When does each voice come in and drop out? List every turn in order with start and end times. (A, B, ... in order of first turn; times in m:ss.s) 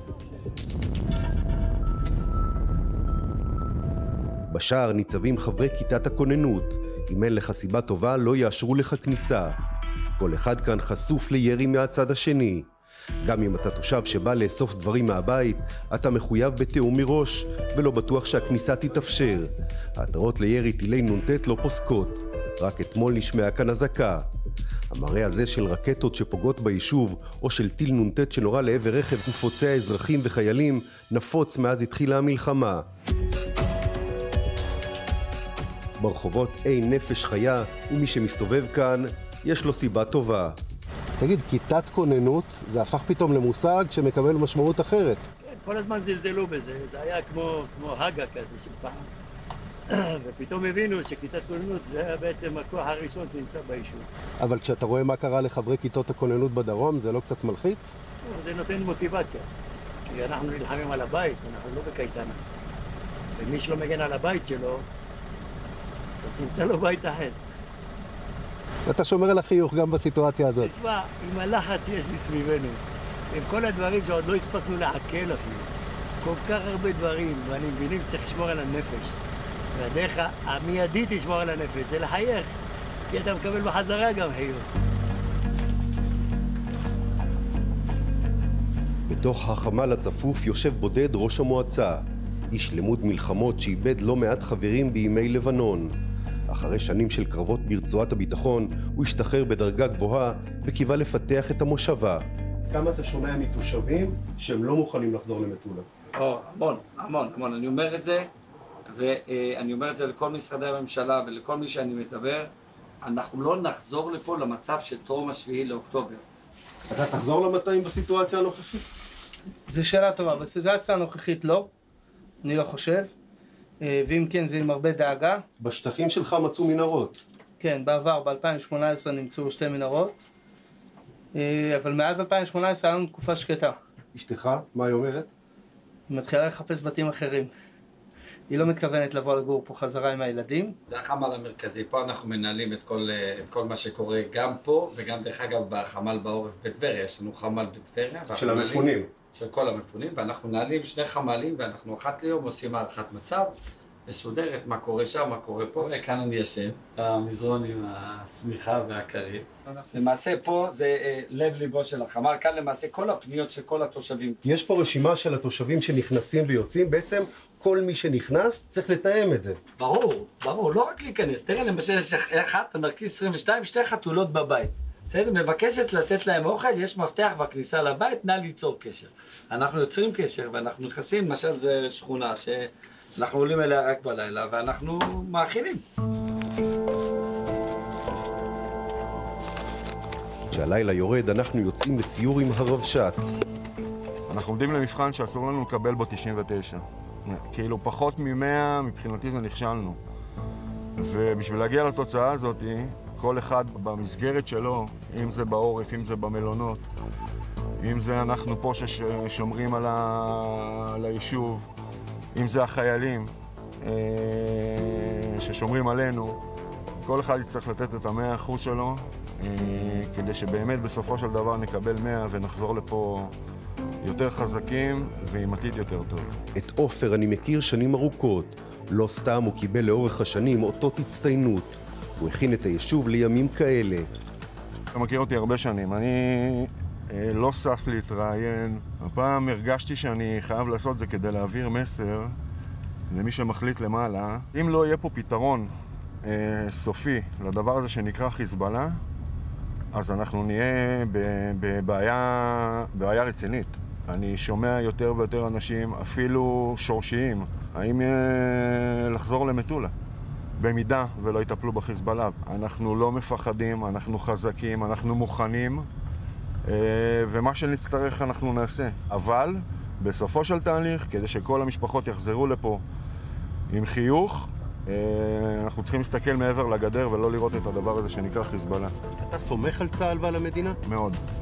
0:04.5-0:09.6 A
0:10.2-0:12.7 A
0:13.2-0:24.2 A
0:24.9-0:32.9 A
0:36.0-0:40.6 A
0:41.2-0:45.2 A
0:45.4-0:49.1 B
0:49.9-0:54.1 B
0:54.4-0:57.9 A
0:58.2-0:59.5 B
1:00.0-1:02.4 B
1:03.4-1:04.8 B
1:06.2-1:07.4 B
1:08.8-1:10.7 A
1:10.6-1:15.7 B
1:16.2-1:19.2 B
1:19.7-1:22.6 B
1:23.1-1:24.7 B
1:29.1-1:36.0 A
1:36.5-1:45.8 A
1:46.1-1:48.3 C
1:48.9-1:56.2 C
1:56.9-1:58.8 A
1:59.7-2:01.7 D
2:02.4-2:03.1 D
2:03.8-2:05.4 D
2:05.6-2:07.2 A
2:07.6-2:10.2 D
2:11.3-2:13.8 D
2:14.1-2:15.3 A
2:16.1-2:17.5 D
2:18.5-2:20.8 D
2:20.9-2:44.4 C
2:28.3-2:29.1 A
2:44.4-2:49.6 A
2:49.8-3:05.8 C
3:10.5-3:13.4 A
3:14.3-3:20.0 E
3:21.0-3:26.9 E
3:27.8-3:31.7 E
3:32.3-3:36.4 E
3:37.0-3:43.3 E
3:44.0-3:46.4 E
3:46.5-3:54.1 A
3:54.9-4:02.4 E
4:03.1-4:05.7 E
4:06.2-4:09.0 E
4:09.9-4:19.9 E
4:20.6-4:25.9 E
4:26.6-4:32.8 E
4:33.7-4:38.9 E
4:39.2-4:40.8 A
4:40.8-4:41.2 E